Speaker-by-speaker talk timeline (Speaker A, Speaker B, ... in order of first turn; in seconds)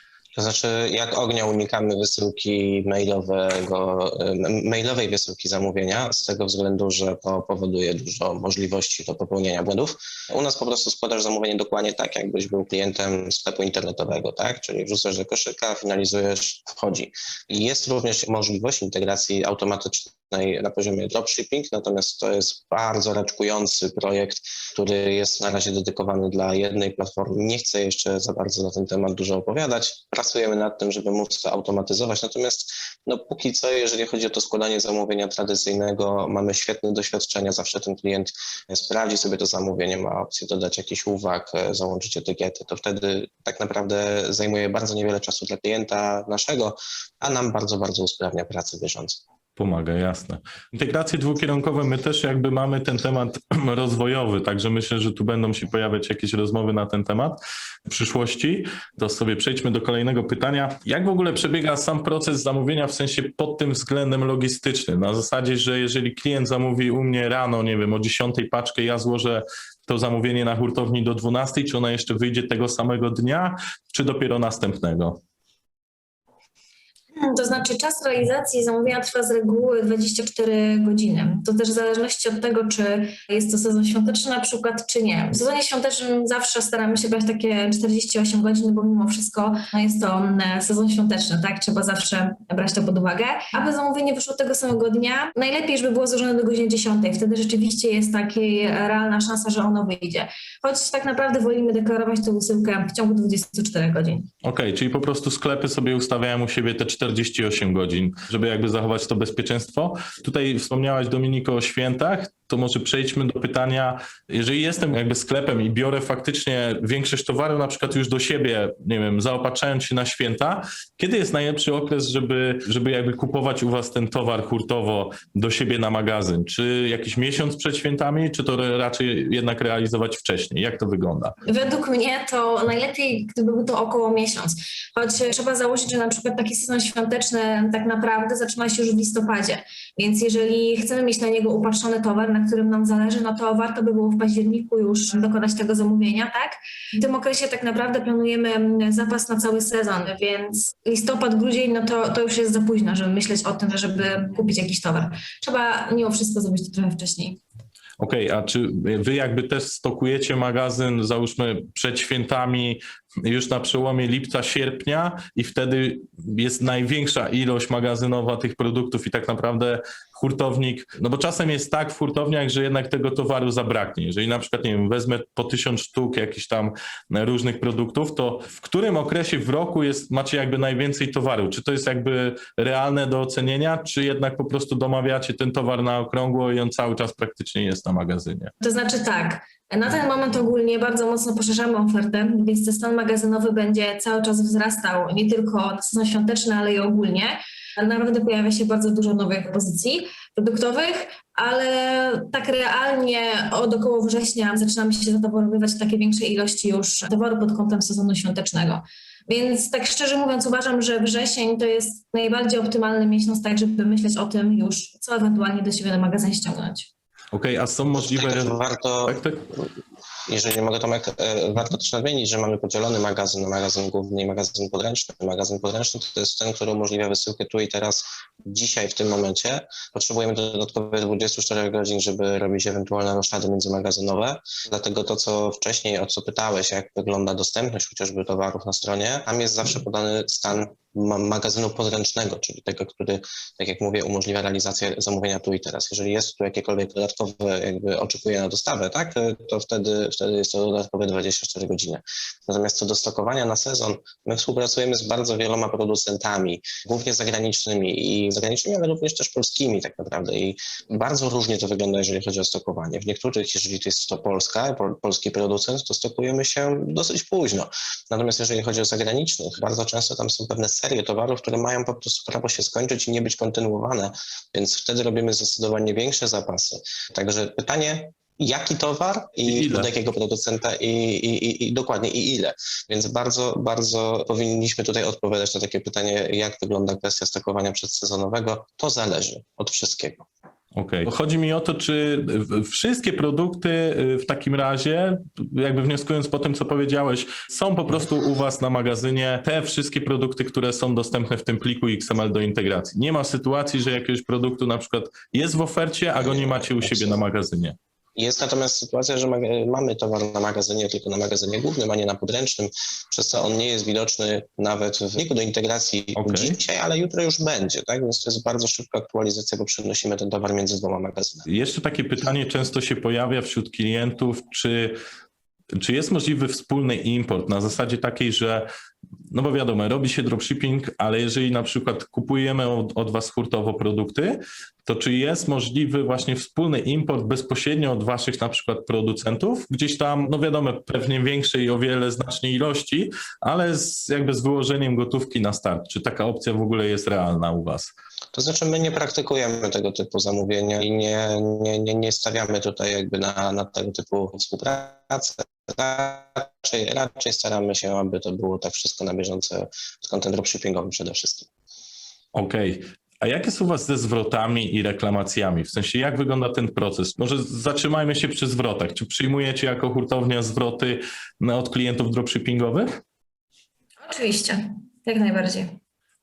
Speaker A: 0.3-49.2, 217.9-219.2, 220.3-290.2, 306.1-307.2, 308.1-321.4, 348.3-361.5
Speaker B: 49.6-75.2, 104.4-131.3, 158.0-188.5, 217.3-219.4, 279.4-279.9, 290.7-307.8, 316.2-316.6, 321.4-325.0, 325.8-328.7, 329.3-347.9, 362.3-372.9
Speaker C: 77.1-104.3, 131.4-157.4, 188.6-216.9, 374.0-375.8